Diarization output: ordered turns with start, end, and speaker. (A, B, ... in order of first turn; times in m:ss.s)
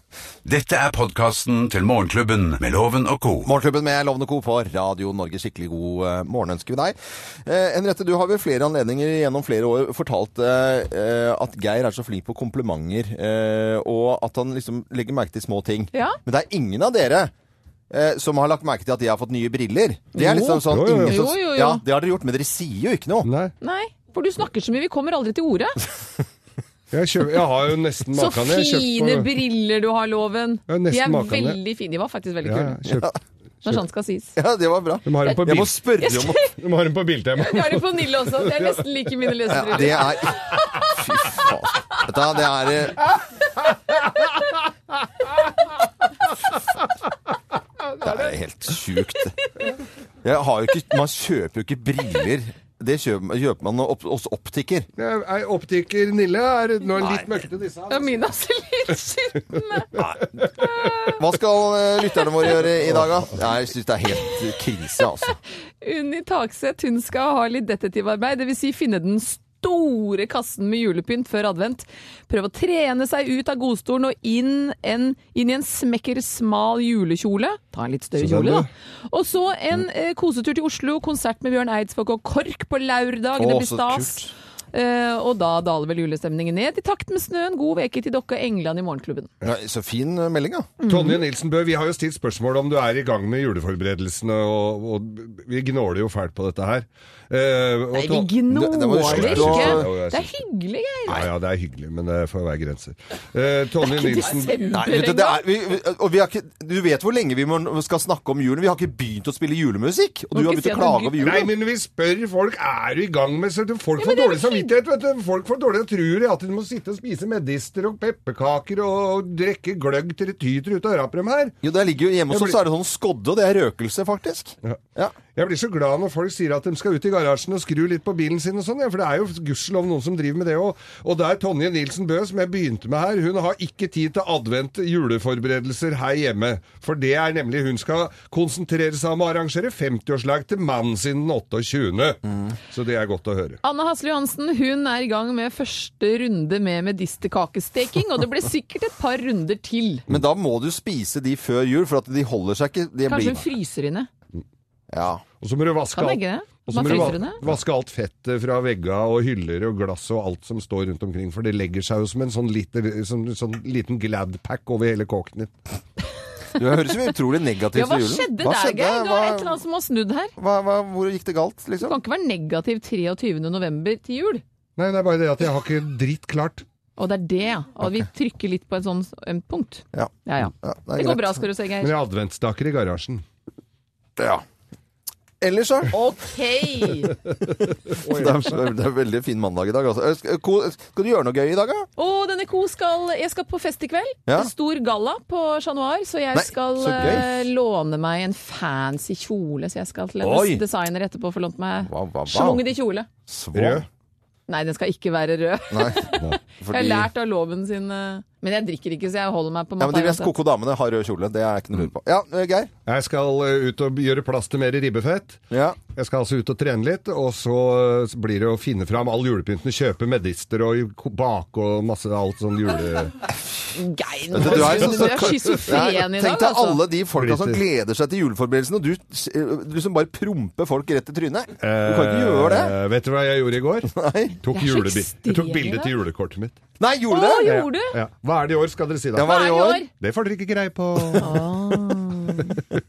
0:00.4-0:03.5 A
0:03.4-0:17.3 B
0:17.9-0:23.3 B
0:20.1-0:21.8 C
0:20.6-0:21.2 D
0:23.2-0:23.5 D
0:23.6-0:25.8 C
0:26.9-0:29.3 D
0:28.1-0:32.8 C
0:30.7-0:31.6 D
0:32.4-0:33.1 D
0:32.9-0:33.1 B
0:33.6-0:34.3 C
0:34.4-0:36.5 B
0:35.0-0:35.9 D
0:36.0-0:36.5 C
0:36.5-0:38.8 D
0:37.4-0:40.6 C
0:39.5-0:43.1 B
0:48.0-0:49.4 B
0:50.2-0:54.9 B
0:55.0-0:58.2 D
0:57.9-0:59.9 C
1:00.4-1:01.2 C
1:01.2-1:05.4 B
1:05.8-1:29.3 C
1:18.2-1:18.7 D
1:23.4-1:24.3 B
1:29.4-1:30.7 B
1:30.8-1:31.2 C
1:30.8-1:40.4 D
1:37.9-1:41.2 C
1:38.5-1:39.9 B
1:41.1-1:44.6 D
1:43.8-1:45.4 C
1:44.7-1:51.5 B
1:50.3-1:51.4 C
1:51.2-2:01.6 D
1:54.0-1:54.7 C
2:01.6-2:05.1 B
2:02.3-2:02.6 D
2:05.3-2:23.6 D
2:23.6-2:30.0 C
2:30.1-2:33.4 B
2:33.1-2:34.1 C
2:34.9-2:35.2 B
2:35.4-2:45.5 D
2:35.9-2:37.4 C
2:36.8-2:37.1 B
2:46.6-2:49.6 B
2:47.7-2:50.3 C
2:50.4-2:52.0 B
2:51.8-2:54.4 C
2:54.8-2:56.6 D
2:57.0-3:01.9 C
2:59.9-3:01.4 B
3:01.8-3:03.2 D
3:04.2-3:04.4 B
3:05.4-3:06.0 B
3:05.9-3:07.2 C
3:07.6-3:11.9 B
3:07.9-3:08.6 D
3:12.0-3:23.1 C
3:16.3-3:17.4 B
3:20.2-3:20.6 B
3:21.8-3:22.6 B
3:23.3-3:23.8 B
3:23.5-3:23.8 D
3:24.5-3:30.3 C
3:25.7-3:27.1 B
3:29.8-3:32.7 B
3:32.8-3:43.3 D
3:35.5-3:35.8 B
3:43.7-3:46.8 C
3:44.3-3:52.7 B
3:44.3-3:45.6 D
3:47.2-3:47.6 D
3:51.6-3:56.6 D
3:53.9-3:54.4 B
3:54.5-3:55.9 C
3:56.8-3:57.6 B
3:57.1-3:58.0 C
3:57.5-3:59.3 D
3:59.1-3:59.8 B
3:59.2-3:59.9 C
4:00.0-4:01.3 D
4:01.2-4:02.6 C